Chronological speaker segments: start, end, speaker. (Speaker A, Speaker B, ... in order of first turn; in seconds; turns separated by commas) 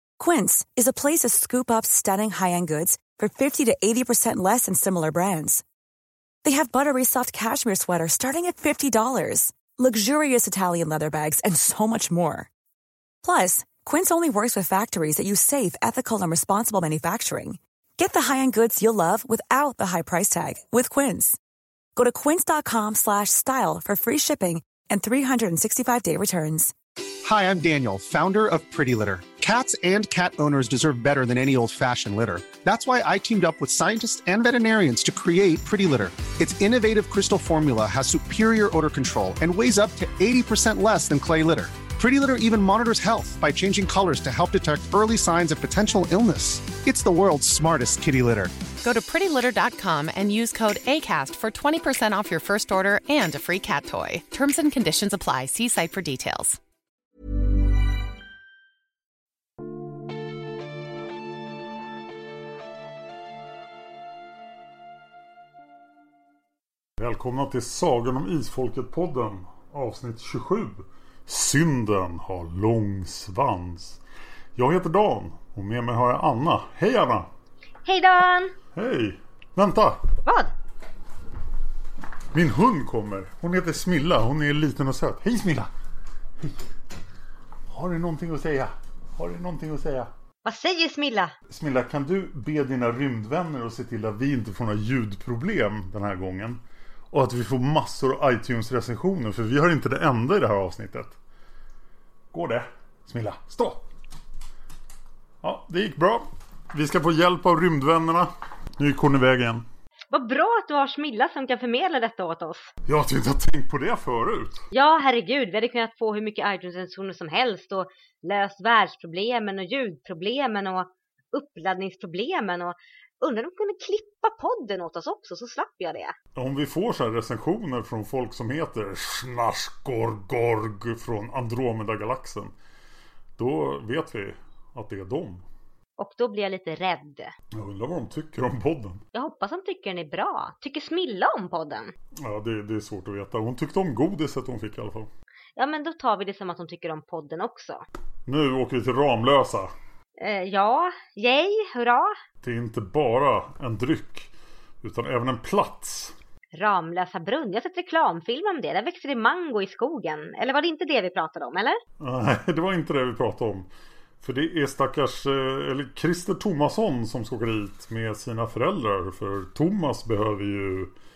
Speaker A: 0.2-5.6, Speaker A: 6.4-12.5, Speaker A: 13.2-21.4, Speaker A: 21.9-26.7, Speaker B: 27.2-48.5, Speaker C: 48.8-56.6, Speaker D: 67.0-74.0, Speaker D: 74.5-77.3, Speaker E: 77.8-78.5, Speaker D: 78.7-80.0, Speaker E: 80.2-80.5, Speaker D: 82.3-85.7, Speaker D: 86.4-86.7, Speaker D: 87.7-90.1, Speaker E: 90.4-91.3, Speaker D: 91.5-101.2, Speaker D: 102.3-103.8, Speaker D: 105.4-109.7, Speaker E: 110.1-112.7, Speaker D: 112.8-114.6, Speaker E: 114.7-126.1, Speaker D: 126.3-132.5, Speaker D: 133.4-135.4, Speaker E: 136.0-137.3, Speaker D: 137.5-139.0, Speaker E: 139.1-141.9, Speaker D: 142.2-145.1, Speaker E: 145.6-147.8, Speaker D: 148.2-149.7, Speaker E: 150.2-152.1, Speaker D: 152.4-156.2, Speaker E: 156.5-161.8, Speaker D: 162.0-163.7, Speaker D: 164.2-170.9